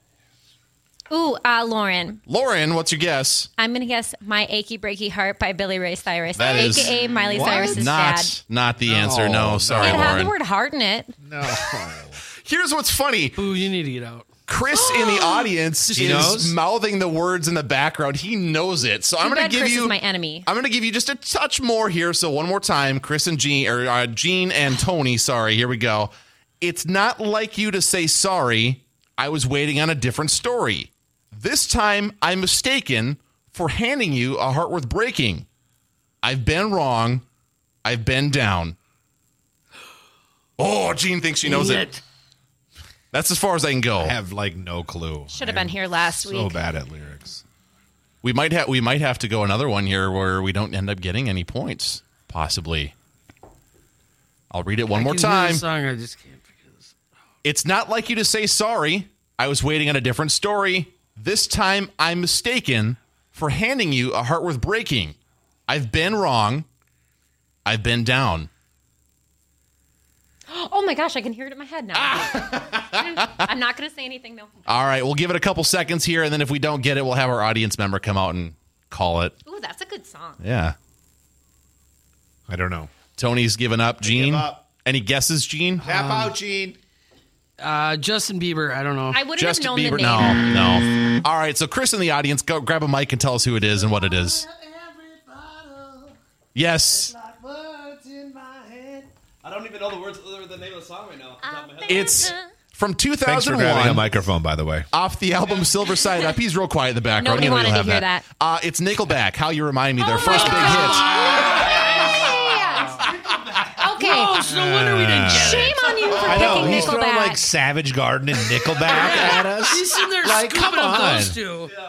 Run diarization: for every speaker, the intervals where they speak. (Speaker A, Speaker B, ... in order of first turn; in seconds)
Speaker A: 1.1-2.2, 3.6-8.4, 9.8-11.1, 15.1-15.5, 19.2-20.5, 45.3-46.6, 70.5-74.5, 79.5-80.4, 89.1-90.5, 101.4-102.5, 107.2-108.2, 110.0-113.1, 113.7-114.4, 115.3-117.4
Speaker B: 2.3-3.5, 6.3-10.3, 12.4-13.4, 14.5-35.5, 36.2-37.2, 37.8-38.8, 40.6-41.9, 43.1-44.1, 48.2-52.9, 54.5-55.6, 57.4-65.2, 65.7-66.7, 67.7-68.5, 71.9-73.4, 74.7-79.3, 80.4-80.8, 83.2-85.9, 89.4-94.4, 96.5-97.1, 101.8-104.1, 104.9-111.2
Speaker C: 7.3-7.8, 8.8-10.2, 11.2-12.2, 15.9-16.6, 44.0-47.4, 82.5-82.9, 84.0-84.6, 85.8-86.8, 103.2-104.9, 114.4-121.4
Speaker D: 13.3-14.3, 15.9-16.2, 41.4-42.0, 54.9-56.9, 85.8-86.3, 87.6-89.2, 110.7-111.6, 113.9-116.7, 118.9-121.7
Speaker E: 99.4-101.8